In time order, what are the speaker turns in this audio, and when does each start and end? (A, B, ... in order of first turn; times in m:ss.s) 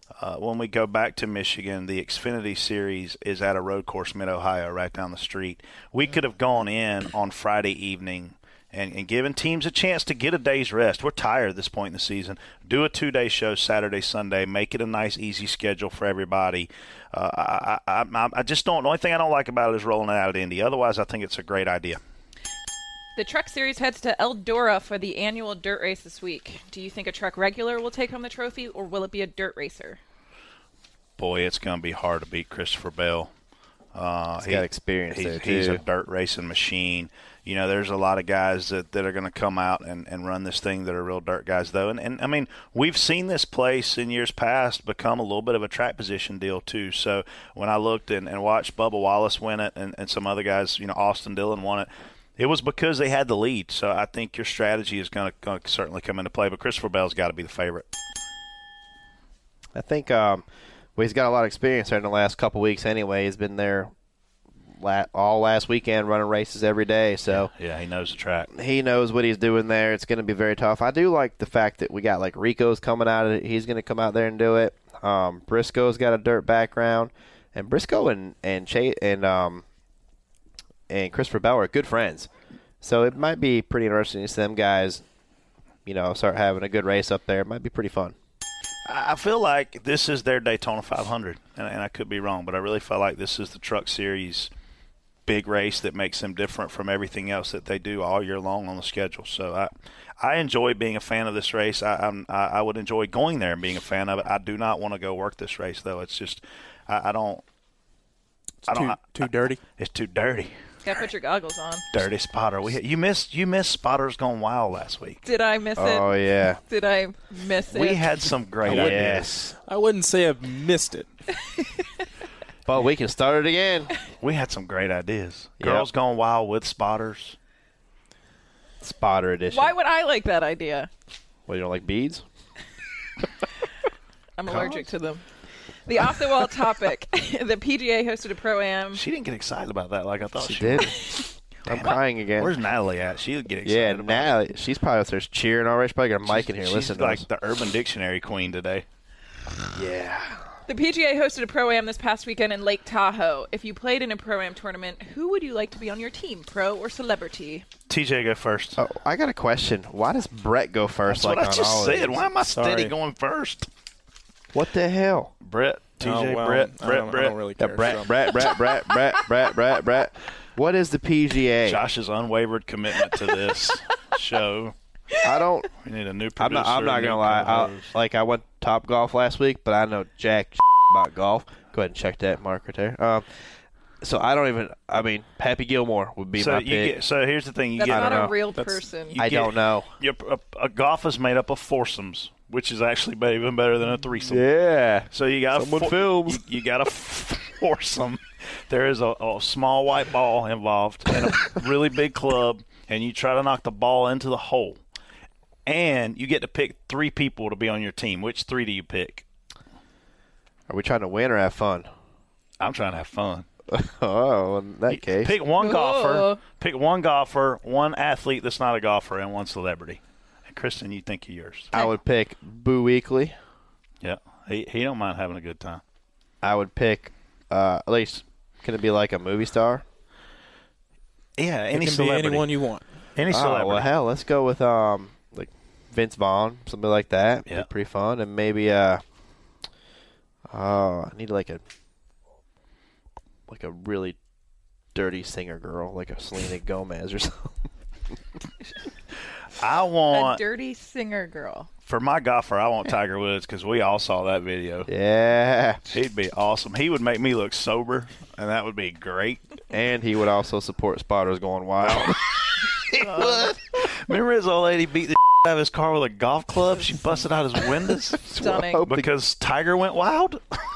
0:00.2-0:22.0 A
0:23.2-0:30.0 B
0:31.2-0:33.3 A
0:33.9-0:57.9 A
0:34.4-0:35.8 C
0:59.7-1:00.4 C
1:01.0-1:03.9 C
1:04.8-1:07.5 C
1:07.3-1:08.5 A
1:08.5-1:19.6 C
1:20.9-1:22.3 C
1:22.8-1:25.0 C
1:25.8-1:28.1 C
1:28.8-1:34.5 A
1:35.3-1:47.4 A
1:48.6-1:49.6 D
1:48.7-1:49.0 A
1:49.8-1:50.5 A
1:50.8-1:51.8 B
1:51.9-1:55.2 A
1:55.2-1:58.1 B
1:55.8-1:56.6 C
1:57.7-1:59.3 A
1:58.6-1:59.5 C
1:58.6-1:59.0 D
1:59.6-2:01.1 D
2:01.4-2:02.0 B
2:02.6-2:03.9 C
2:04.2-2:07.4 A
2:05.6-2:05.9 C
2:08.8-2:09.7 C
2:09.5-2:10.9 B
2:11.5-2:12.2 C
2:14.4-2:15.2 B
2:15.9-2:19.0 B
2:18.9-2:21.0 A
2:20.4-2:22.5 C
2:21.7-2:24.3 A
2:23.6-2:27.2 C
2:26.2-2:28.8 A
2:29.7-2:30.4 C
2:30.7-2:37.6 B
2:37.9-2:38.8 A
2:38.8-2:42.3 C
2:41.1-2:43.7 A
2:42.5-2:42.9 D
2:44.5-2:45.3 C
2:45.4-2:47.4 A
2:46.0-2:48.3 D
2:47.6-2:51.8 C
2:51.6-2:54.7 A
2:55.2-2:55.7 C
2:55.8-2:57.9 A
2:56.4-3:03.2 C
3:04.0-3:07.0 C
3:06.4-3:08.3 A
3:07.8-3:09.2 B
3:07.8-3:08.3 C
3:08.5-3:08.9 D
3:09.1-3:14.5 A
3:09.2-3:09.9 C
3:14.2-3:16.4 C
3:15.1-3:24.8 A
3:25.6-3:29.2 A
3:30.7-3:31.9 C
3:32.6-3:33.4 A
3:33.7-3:35.3 C
3:34.9-3:41.7 A
3:35.6-3:36.4 B
3:41.7-3:43.3 C
3:44.0-3:45.8 A
3:46.4-3:49.8 C
3:51.4-3:52.5 A
3:51.7-3:52.8 D
3:53.2-3:53.9 A
3:53.3-3:59.0 C
4:00.5-4:01.6 C
4:03.5-4:04.2 C
4:04.9-4:07.6 C
4:09.6-4:10.4 A
4:10.1-4:11.7 B
4:11.8-4:14.9 A
4:14.9-4:15.8 C
4:15.9-4:19.4 A
4:19.7-4:22.2 C
4:21.8-4:28.2 A
4:28.2-4:29.1 C
4:28.4-4:28.8 B
4:28.8-4:30.6 A